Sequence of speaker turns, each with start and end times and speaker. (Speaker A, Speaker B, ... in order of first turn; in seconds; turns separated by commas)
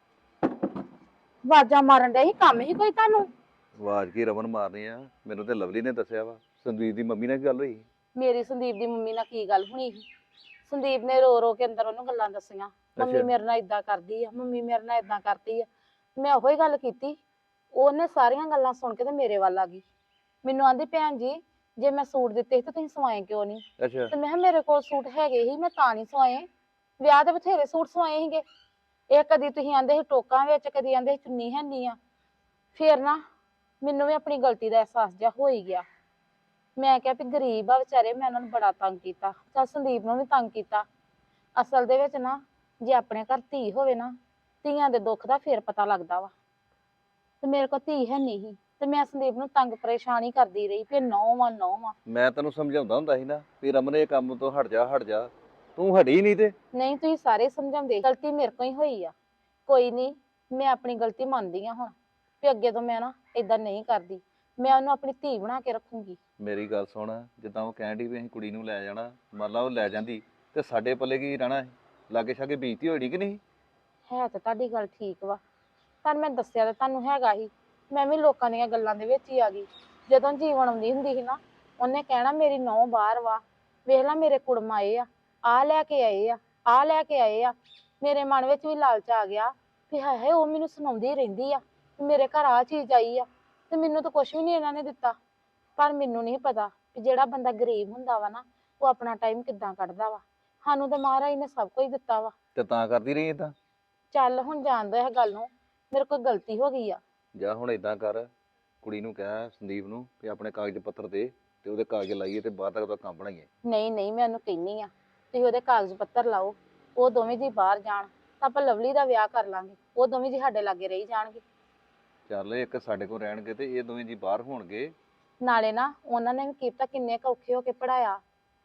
Speaker A: 1.4-3.3, Speaker B: 3.7-7.8, Speaker A: 8.1-10.0, Speaker A: 10.7-15.7, Speaker B: 12.9-13.3, Speaker A: 16.2-17.2, Speaker A: 17.7-19.8, Speaker A: 20.4-26.4, Speaker B: 23.8-24.1, Speaker A: 27.0-28.4, Speaker A: 29.1-32.0, Speaker A: 32.7-33.2, Speaker A: 33.8-35.8, Speaker A: 36.8-40.8, Speaker A: 41.6-46.3, Speaker A: 47.4-52.0, Speaker B: 52.0-56.5, Speaker A: 56.7-59.1, Speaker A: 59.7-66.2, Speaker B: 66.4-73.4, Speaker A: 74.1-75.4, Speaker A: 76.0-95.2, Speaker A: 95.8-102.3, Speaker B: 102.5-103.5, Speaker A: 104.1-107.0, Speaker B: 107.3-108.3, Speaker B: 108.8-113.5, Speaker A: 113.7-121.4, Speaker B: 122.3-124.9, Speaker A: 125.4-128.2